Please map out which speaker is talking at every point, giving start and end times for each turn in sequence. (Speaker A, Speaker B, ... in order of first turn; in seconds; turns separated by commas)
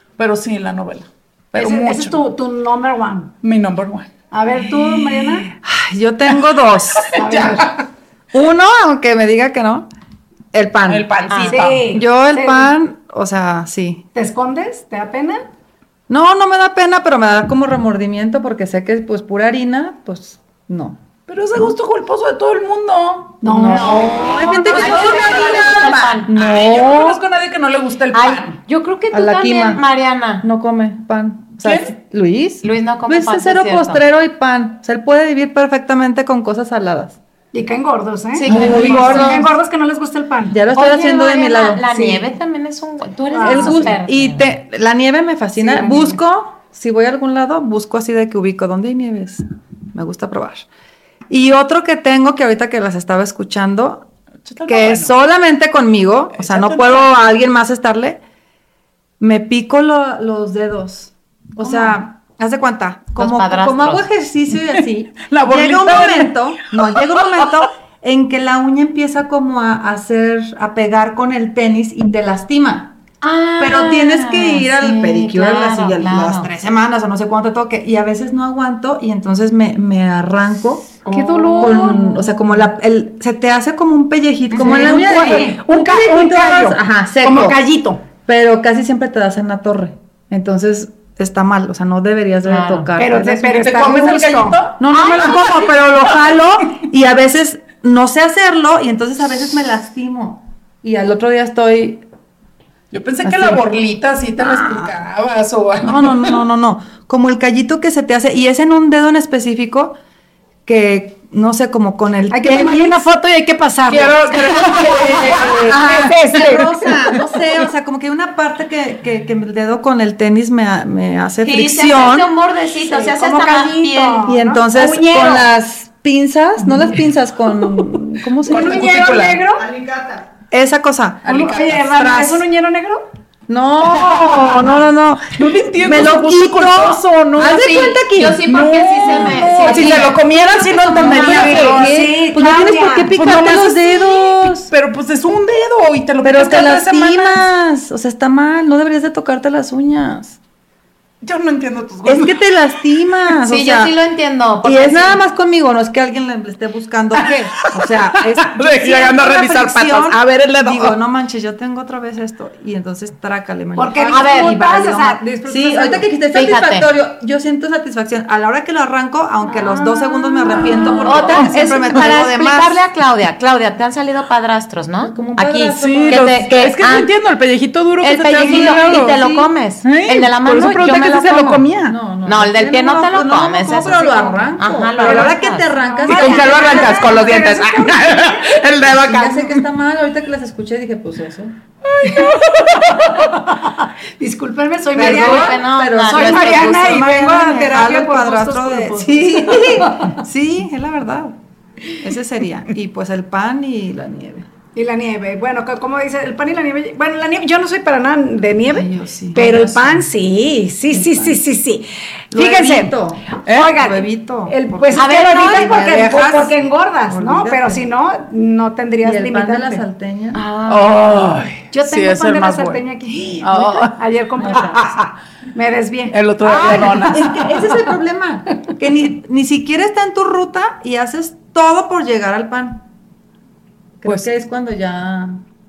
Speaker A: 0.2-2.1, Speaker B: 1.5-3.3, Speaker A: 3.4-4.1, Speaker B: 4.3-5.5, Speaker A: 4.8-5.4, Speaker C: 5.6-7.2, Speaker A: 7.0-7.7, Speaker B: 7.1-7.8, Speaker C: 8.3-9.9, Speaker C: 10.5-11.1, Speaker A: 10.9-11.9, Speaker D: 11.3-11.7, Speaker B: 11.5-12.7, Speaker C: 11.9-14.0, Speaker B: 14.2-15.4, Speaker C: 16.1-21.0, Speaker A: 21.3-28.6, Speaker B: 23.4-25.4, Speaker C: 23.4-27.2, Speaker D: 23.7-26.3, Speaker D: 28.1-30.5, Speaker C: 29.1-29.8, Speaker C: 30.4-37.2, Speaker A: 31.6-31.9, Speaker D: 32.6-34.0, Speaker B: 37.5-40.6, Speaker D: 38.4-39.5, Speaker C: 38.5-39.5, Speaker C: 40.5-41.9, Speaker D: 40.7-44.5, Speaker B: 41.9-42.3, Speaker B: 43.3-44.0, Speaker C: 43.4-49.4, Speaker B: 45.6-46.2, Speaker C: 49.9-50.7, Speaker C: 51.3-54.1, Speaker A: 54.5-55.1, Speaker C: 54.7-58.2, Speaker A: 56.4-57.2, Speaker C: 59.2-72.9, Speaker A: 61.6-62.0, Speaker D: 63.2-64.1, Speaker A: 64.7-67.2, Speaker D: 73.2-76.5, Speaker C: 73.6-81.0, Speaker B: 81.1-82.3, Speaker D: 81.1-81.8, Speaker C: 81.6-87.6, Speaker D: 84.5-85.5, Speaker B: 84.5-88.0, Speaker C: 88.2-102.0, Speaker D: 92.5-92.9, Speaker B: 93.0-96.6, Speaker A: 93.6-95.5, Speaker D: 95.0-95.3, Speaker A: 102.9-106.4, Speaker C: 103.2-103.7, Speaker C: 104.4-104.9, Speaker C: 105.8-110.0, Speaker C: 110.7-113.0, Speaker B: 112.3-116.9, Speaker A: 113.9-116.6, Speaker C: 115.3-122.3, Speaker D: 121.5-125.4, Speaker B: 122.8-125.4, Speaker C: 124.3-129.1, Speaker B: 128.4-129.7, Speaker A: 128.5-129.4, Speaker C: 129.8-131.3, Speaker A: 131.2-132.4, Speaker B: 131.3-133.1, Speaker C: 133.5-140.2, Speaker A: 133.9-134.7, Speaker A: 135.3-142.0, Speaker D: 138.0-140.2, Speaker B: 139.6-139.9, Speaker C: 140.7-144.7, Speaker B: 140.8-143.2, Speaker A: 143.1-147.4, Speaker C: 146.2-150.4, Speaker A: 151.2-152.4, Speaker C: 152.0-153.9, Speaker D: 153.4-155.2, Speaker C: 154.6-172.8, Speaker A: 158.3-161.0, Speaker B: 163.8-166.1, Speaker D: 164.1-164.8, Speaker D: 166.3-166.9, Speaker A: 169.6-172.2, Speaker D: 170.7-177.1, Speaker C: 175.0-176.6, Speaker A: 175.8-182.0, Speaker D: 178.0-181.7, Speaker B: 178.4-178.8, Speaker C: 181.8-187.5, Speaker D: 182.2-185.7, Speaker A: 185.0-185.4, Speaker B: 185.9-188.3, Speaker A: 186.1-189.7, Speaker C: 188.8-191.6, Speaker A: 191.8-193.3, Speaker B: 192.0-192.3, Speaker B: 192.9-200.2, Speaker D: 194.9-197.1, Speaker C: 194.9-201.4, Speaker C: 202.0-204.5, Speaker B: 204.8-219.8, Speaker C: 208.7-210.0, Speaker C: 210.9-211.4, Speaker C: 212.3-216.1, Speaker A: 213.5-213.7, Speaker D: 214.9-215.8, Speaker A: 215.3-216.5, Speaker C: 217.1-217.8, Speaker C: 219.0-220.4, Speaker D: 220.3-221.2, Speaker A: 220.7-222.8, Speaker B: 221.7-224.9, Speaker A: 223.4-223.9, Speaker C: 224.4-224.8, Speaker A: 224.5-225.1, Speaker B: 225.5-227.1, Speaker A: 226.1-227.6, Speaker C: 226.4-232.8, Speaker C: 234.0-235.4